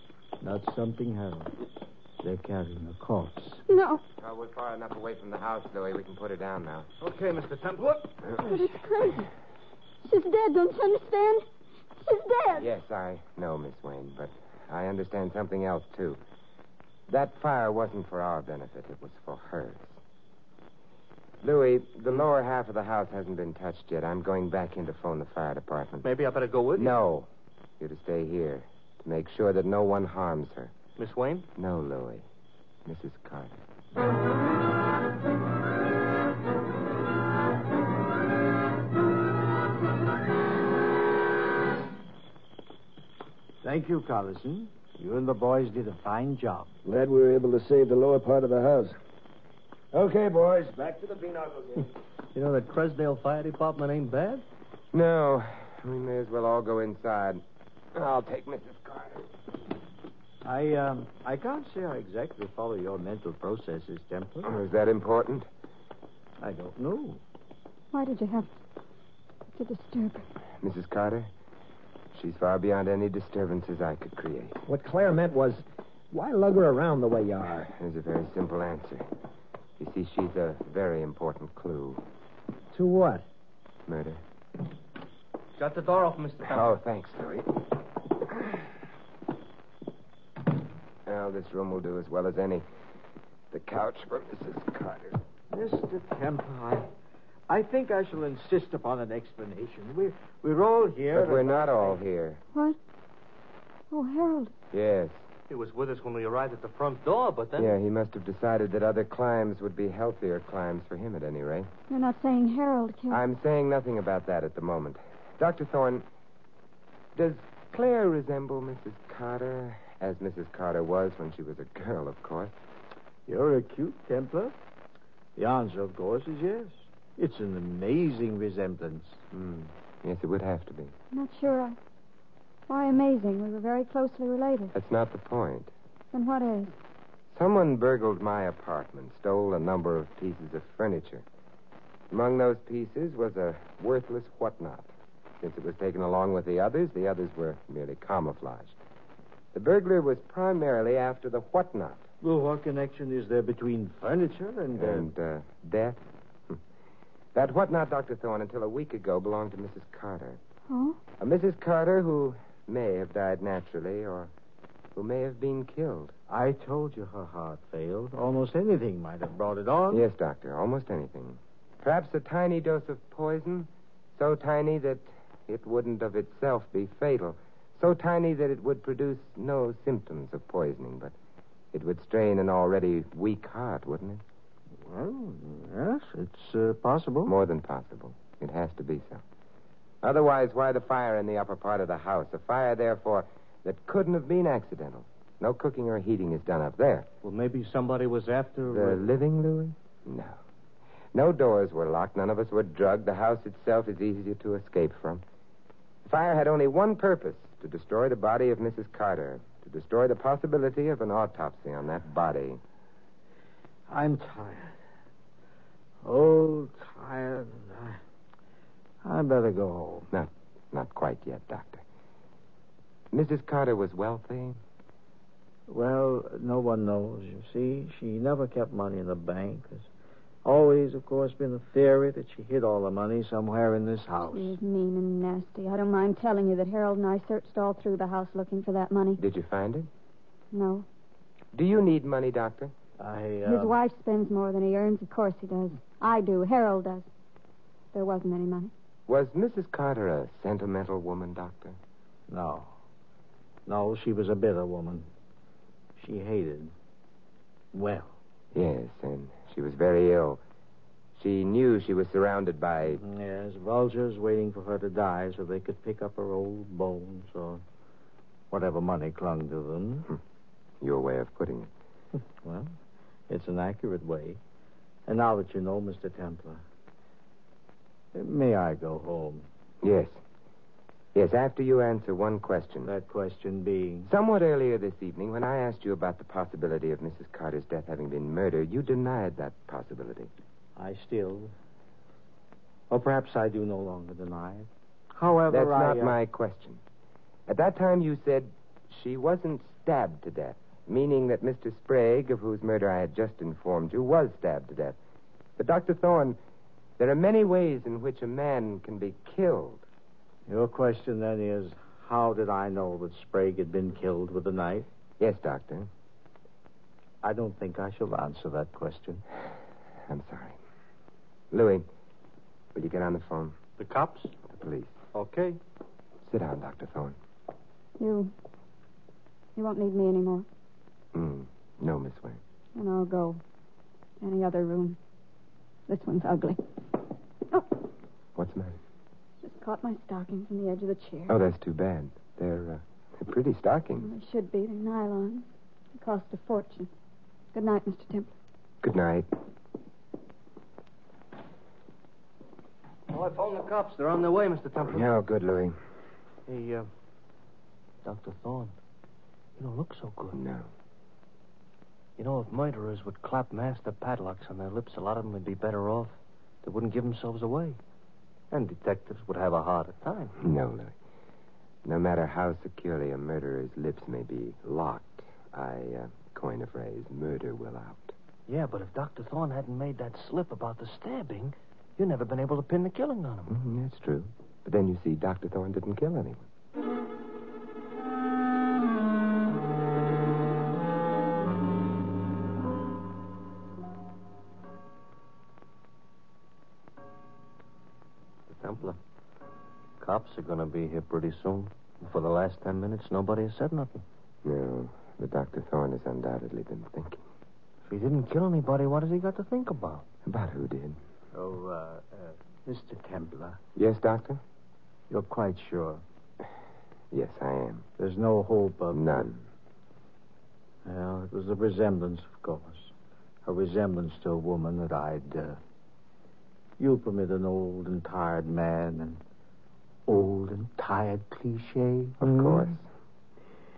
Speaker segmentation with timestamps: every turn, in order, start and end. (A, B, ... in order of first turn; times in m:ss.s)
0:00.4-0:01.5 A
0:02.2-0:03.6 A
0:03.7-0:04.0 B
0:04.2-0:06.9 C
0:07.0-0:08.6 D
0:08.4-0:09.3 B
0:10.0-0:11.4 B
0:12.0-0:12.7 B
0:12.6-0:16.2 C
0:17.1-0:20.0 C
0:21.4-0:26.1 C
0:26.0-0:27.0 D
0:26.8-0:27.3 C
0:27.8-0:30.7 C
0:31.0-0:31.5 D
0:31.6-0:32.2 C
0:32.8-0:33.6 C
0:43.6-0:46.7 A
0:46.8-0:49.0 E
0:49.9-0:51.9 E
0:52.4-0:54.4 D
0:54.9-0:57.4 C
0:57.9-0:59.3 C
1:00.4-1:04.6 A
1:04.4-1:05.5 C
1:06.4-1:07.2 A
1:07.9-1:08.5 B
1:09.5-1:10.2 B
1:10.6-1:11.3 C
1:12.1-1:14.6 C
1:14.7-1:17.7 F
1:17.7-1:19.1 C
1:19.8-1:22.0 C
1:22.7-1:23.3 F
1:23.9-1:24.2 C
1:25.6-1:26.8 D
1:26.4-1:27.6 C
1:31.1-1:32.7 C
1:33.5-1:35.2 C
1:35.5-1:36.9 A
1:37.5-1:42.0 A
1:41.1-1:42.4 C
1:42.5-1:42.8 B
1:43.9-1:44.5 B
1:44.7-1:45.2 C
1:45.5-1:47.8 D
1:47.6-1:51.7 C
1:51.9-1:53.2 B
1:53.1-1:56.1 C
1:57.2-2:02.6 C
2:03.3-2:04.6 A
2:05.4-2:09.2 A
2:09.3-2:10.9 C
2:11.1-2:11.8 B
2:12.7-2:14.7 B
2:14.7-2:15.7 C
2:16.1-2:16.7 B
2:17.3-2:21.2 C
2:22.1-2:28.8 C
2:29.5-2:32.0 C
2:32.2-2:35.1 A
2:34.8-2:36.6 C
2:37.3-2:40.4 C
2:40.7-2:41.0 B
2:41.2-2:44.3 C
2:45.0-2:46.1 C
2:46.3-2:50.0 A
2:49.9-3:01.1 C
3:01.7-3:04.2 C
3:04.8-3:07.3 A
3:07.2-3:09.2 C
3:10.0-3:17.1 C
3:17.2-3:19.1 D
3:18.7-3:20.4 C
3:21.1-3:25.2 C
3:26.1-3:32.6 C
3:33.9-3:34.8 A
3:36.0-3:38.0 A
3:39.0-3:40.1 A
3:40.1-3:41.8 C
3:43.1-3:44.6 C
3:45.7-3:49.9 A
3:50.4-3:54.5 A
3:54.3-3:59.2 B
3:59.2-3:59.9 C
4:00.5-4:00.9 B
4:01.5-4:02.7 C
4:03.0-4:03.8 A
4:03.5-4:07.1 B
4:07.9-4:08.7 B
4:09.1-4:11.8 C
4:12.3-4:12.7 A
4:13.7-4:15.1 A
4:16.0-4:16.7 A
4:17.7-4:18.1 A
4:18.5-4:20.4 C
4:21.2-4:23.0 C
4:22.9-4:27.6 A
4:28.5-4:30.1 A
4:30.8-4:31.7 C
4:32.4-4:32.7 A
4:33.3-4:34.4 A
4:35.1-4:36.6 A
4:38.1-4:39.5 A
4:39.8-4:40.2 C
4:41.1-4:42.9 C
4:42.8-4:44.1 A
4:44.1-4:50.3 C
4:50.8-4:51.5 A
4:52.9-4:56.2 A
4:55.5-4:56.8 C
4:57.5-5:05.0 C
5:05.6-5:06.4 C
5:07.0-5:09.8 C
5:10.5-5:14.9 A
5:15.2-5:15.9 C
5:17.2-5:19.2 A
5:20.1-5:20.6 C
5:21.5-5:21.9 C
5:22.7-5:23.6 C
5:23.8-5:24.3 D
5:24.5-5:25.0 C
5:25.1-5:25.6 D
5:26.2-5:27.2 C
5:28.0-5:28.3 B
5:29.6-5:30.5 B
5:31.1-5:32.4 C
5:32.8-5:33.4 B
5:34.2-5:35.0 B
5:35.9-5:36.6 B
5:38.4-5:38.8 C
5:39.4-5:41.4 B
5:41.3-5:44.1 C
5:44.0-5:46.9 B
5:47.5-5:48.3 B
5:48.8-5:49.3 C
5:53.1-5:55.1 D
5:54.9-5:55.8 C
5:56.5-5:56.9 D
5:58.0-5:58.8 D
5:59.6-6:00.4 D
6:00.3-6:00.7 C
6:02.2-6:07.8 D
6:08.5-6:10.4 D
6:10.4-6:11.0 C
6:11.8-6:18.2 C
6:18.5-6:23.6 D
6:23.5-6:26.4 C
6:38.5-6:39.0 D
6:40.0-6:44.0 D
6:44.4-6:47.2 C
6:47.9-6:50.0 D
6:50.3-6:51.0 C
6:51.3-6:53.6 A
6:53.8-6:54.4 C
6:55.1-6:56.0 A
6:57.1-6:57.9 C
6:58.0-6:59.3 A
6:58.9-6:59.4 C
7:00.8-7:02.9 A
7:03.4-7:05.6 A
7:06.8-7:09.2 A
7:10.1-7:12.7 A
7:12.2-7:12.8 C